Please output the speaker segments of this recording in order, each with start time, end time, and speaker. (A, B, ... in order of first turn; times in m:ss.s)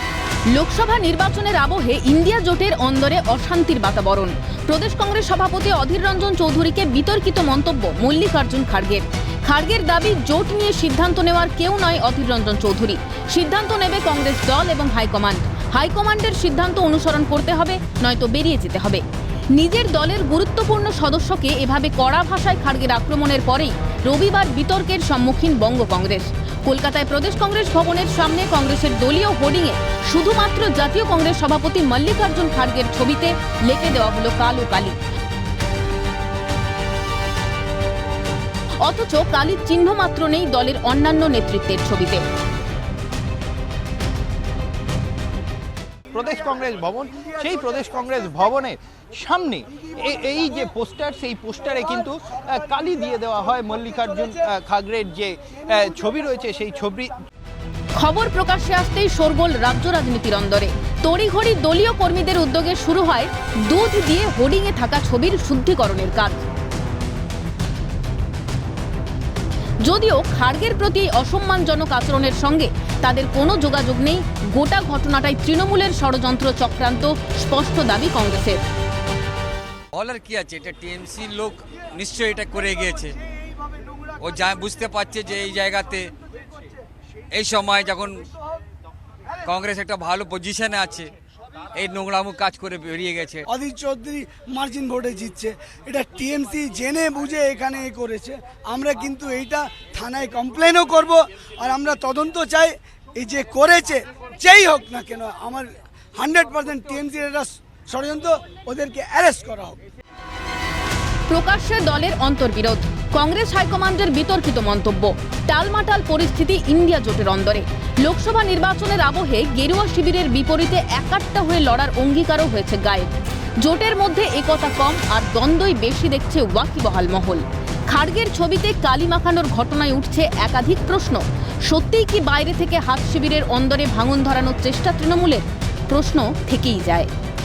0:00.5-0:19.0 A
0:19.5-0:35.0 A
0:38.8-0:42.2 A
0:46.1-0:57.1 B
0:58.0-1:06.5 A
1:09.8-1:18.6 A
1:19.9-1:23.2 C
1:24.2-1:26.1 C
1:27.3-1:28.2 C
1:29.4-1:31.1 C
1:31.8-1:33.4 C
1:33.5-1:49.8 D
1:51.3-2:03.1 A
2:03.6-2:17.1 A